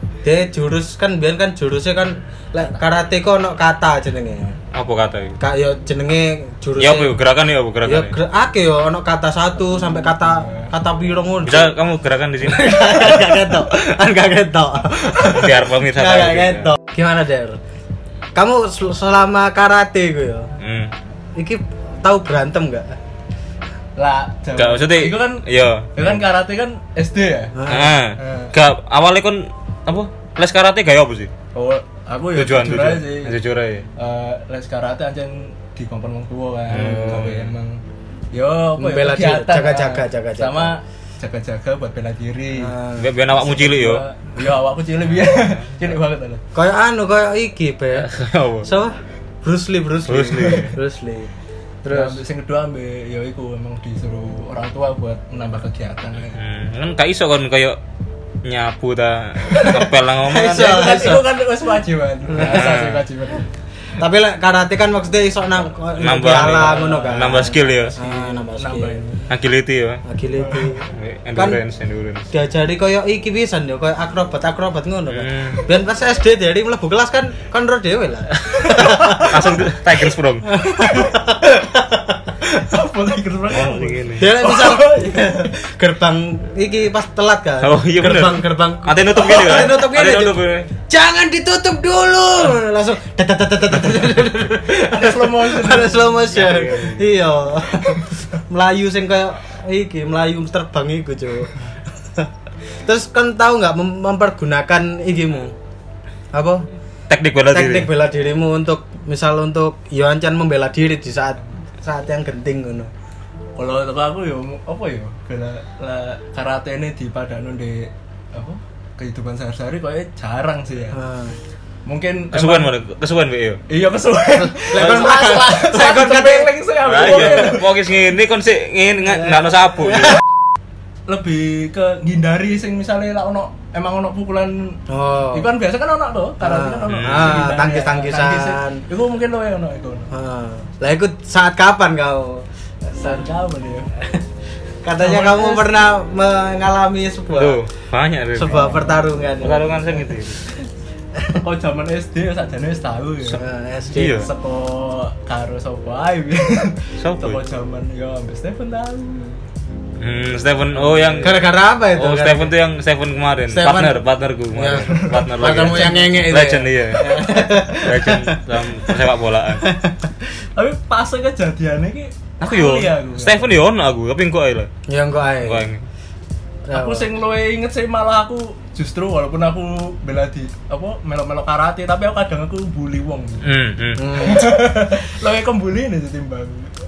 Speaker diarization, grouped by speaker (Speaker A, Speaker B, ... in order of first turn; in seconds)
Speaker A: 0.2-4.6, 5.4-7.1, 7.8-11.7, 12.4-17.6, 18.4-20.5, 21.4-22.9, 27.6-28.0, 38.8-40.7, 42.5-43.1, 46.5-48.1, 48.6-51.3, 51.8-52.2, 60.2-61.3, 62.3-62.6, 64.0-69.0, 70.0-70.8, 71.4-71.6, 72.3-79.6, 80.5-82.5, 84.2-102.3, 102.8-105.5, 106.3-106.7, 107.5-112.9, 120.9-121.4, 124.4-126.5, 134.9-135.5, 136.4-138.8, 140.1-143.3, 144.8-147.6, 148.4-150.0, 153.3-154.2, 161.2-162.5, 163.5-164.0, 164.5-168.4, 169.6-170.1, 174.9-175.7, 176.7-177.1, 184.0-184.7
Speaker B: 4.7-5.4, 6.8-8.2, 11.4-13.2, 15.2-16.8, 20.6-20.9, 24.6-26.2, 27.7-31.3, 32.4-33.9, 36.7-37.5, 43.0-44.0, 45.1-45.7, 48.0-48.7, 50.1-50.8, 56.4-57.8, 58.4-60.9, 62.4-63.0, 66.0-68.0, 69.3-70.0, 70.8-72.3, 75.1-75.7, 78.4-80.5, 83.5-84.3, 87.6-90.7, 96.3-97.1, 107.1-107.9, 122.3-123.6, 124.8-125.1, 126.8-130.2, 136.9-137.5, 147.3-148.8, 149.4-150.4, 153.9-154.3, 157.0-157.4, 160.0-167.1, 167.8-169.7, 172.4-174.7, 175.4-175.8, 183.4-184.1
Speaker C: 10.4-10.7, 24.0-25.4, 25.9-28.5, 31.5-33.4, 34.0-37.8, 38.3-42.7, 43.4-46.4, 51.9-56.4, 59.5-59.9, 60.5-63.5, 66.4-69.3, 70.4-70.8, 82.7-85.5, 94.7-96.3, 113.6-121.0, 121.9-122.7, 123.7-127.8, 131.1-140.1, 142.9-143.9, 145.0-145.7, 148.5-149.0, 151.4-153.4, 154.0-159.4, 164.8-166.3, 167.1-167.4, 170.6-173.5, 176.7-183.5, 184.2-186.8